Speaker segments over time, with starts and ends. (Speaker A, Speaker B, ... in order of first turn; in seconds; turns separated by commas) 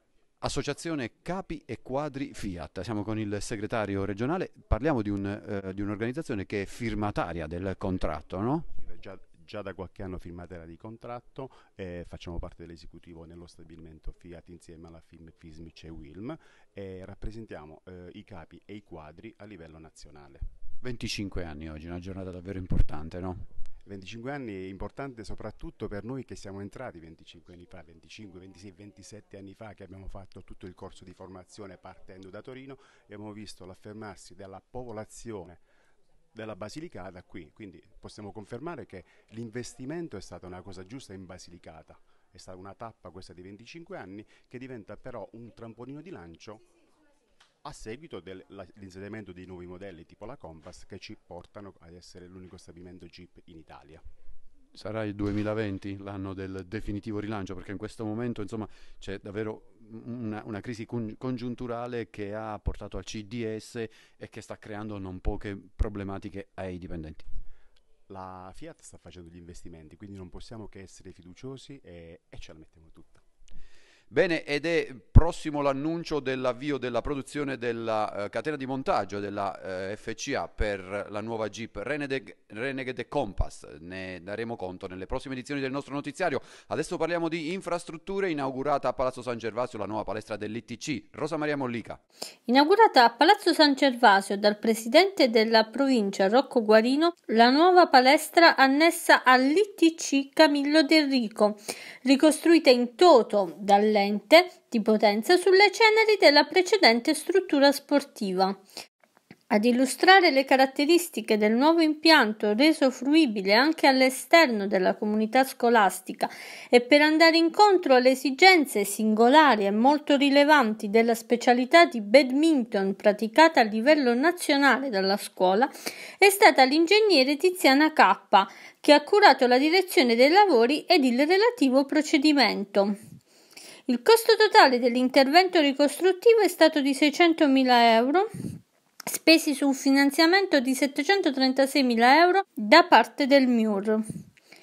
Speaker A: 0.4-8.7, Speaker B: 8.8-20.5, Speaker A: 20.8-23.4, Speaker B: 23.9-35.6, Speaker B: 36.3-46.6, Speaker B: 47.6-54.0, Speaker A: 54.7-67.3, Speaker B: 68.1-73.2, Speaker A: 74.1-92.0, Speaker C: 92.5-108.6, Speaker C: 109.5-133.0, Speaker C: 133.9-138.3, Speaker C: 139.1-144.0